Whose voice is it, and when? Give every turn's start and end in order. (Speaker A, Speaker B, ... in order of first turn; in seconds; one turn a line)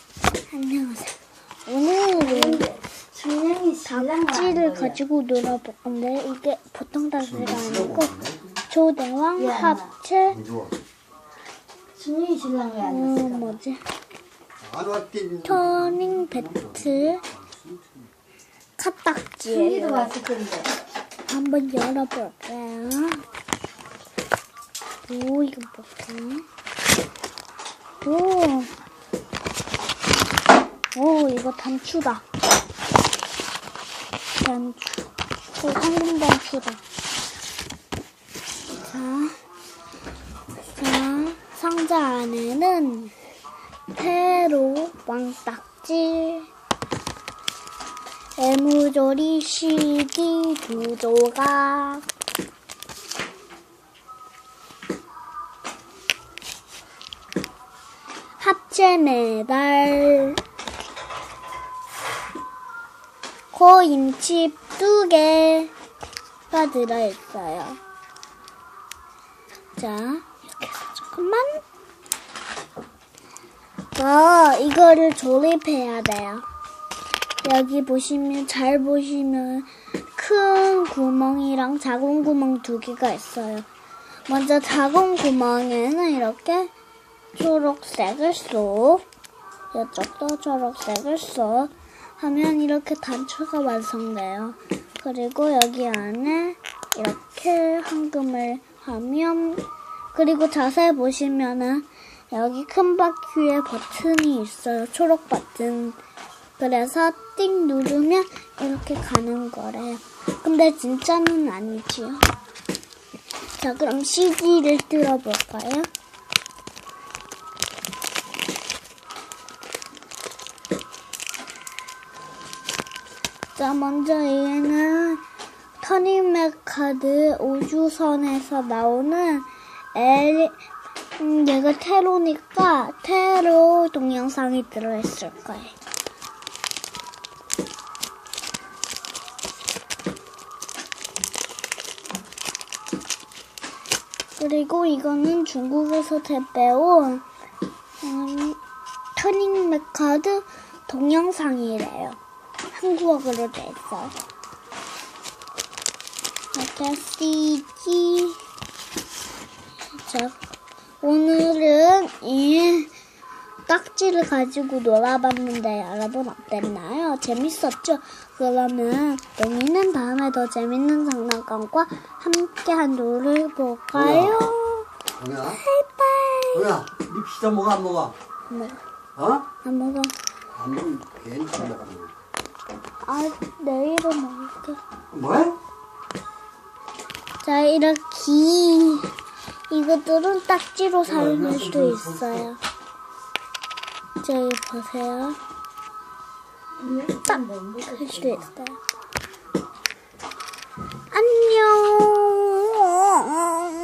Speaker A: 0.5-2.6
Speaker B: 2.2-5.0
Speaker A: 3.9-10.4
Speaker C: 7.2-8.4
Speaker B: 9.4-9.9
Speaker C: 10.3-10.7
Speaker B: 11.9-13.6
Speaker A: 12.8-13.8
Speaker C: 14.6-17.9
Speaker A: 15.4-17.2
Speaker A: 18.8-20.1
Speaker B: 19.5-20.7
Speaker A: 21.2-23.2
Speaker A: 25.1-26.4
Speaker A: 28.0-28.7
Speaker A: 30.9-32.2
Speaker A: 34.4-36.8
Speaker A: 38.8-39.4
Speaker A: 40.8-43.1
Speaker A: 43.9-46.5
Speaker A: 48.4-52.0
Speaker A: 58.4-60.4
Speaker A: 63.5-65.7
Speaker A: 66.5-67.8
Speaker A: 69.8-71.6
Speaker A: 73.9-76.5
Speaker A: 77.4-83.7
Speaker A: 84.3-86.7
Speaker A: 87.3-89.0
Speaker A: 89.7-106.0
Speaker A: 106.6-112.2
Speaker A: 113.6-115.9
Speaker A: 123.5-125.2
Speaker A: 125.8-130.6
Speaker A: 131.2-135.8
Speaker A: 144.4-147.2
Speaker A: 148.0-148.6
Speaker A: 149.2-152.2
Speaker A: 152.7-154.2
Speaker A: 156.5-158.4
Speaker A: 160.0-160.4
Speaker A: 161.0-162.9
Speaker A: 163.7-174.9
Speaker C: 173.9-174.6
Speaker C: 175.2-175.6
Speaker A: 175.5-176.7
Speaker C: 176.5-178.2
Speaker A: 178.5-178.8
Speaker C: 179.2-179.5
Speaker A: 179.6-180.1
Speaker C: 180.5-182.1
Speaker A: 183.0-184.8
Speaker C: 185.1-185.6
Speaker A: 187.4-189.1
Speaker A: 189.7-192.6
Speaker C: 191.1-192.5
Speaker A: 194.2-195.4
Speaker B: 196.8-198.5
Speaker A: 197.2-198.8
Speaker A: 201.1-203.7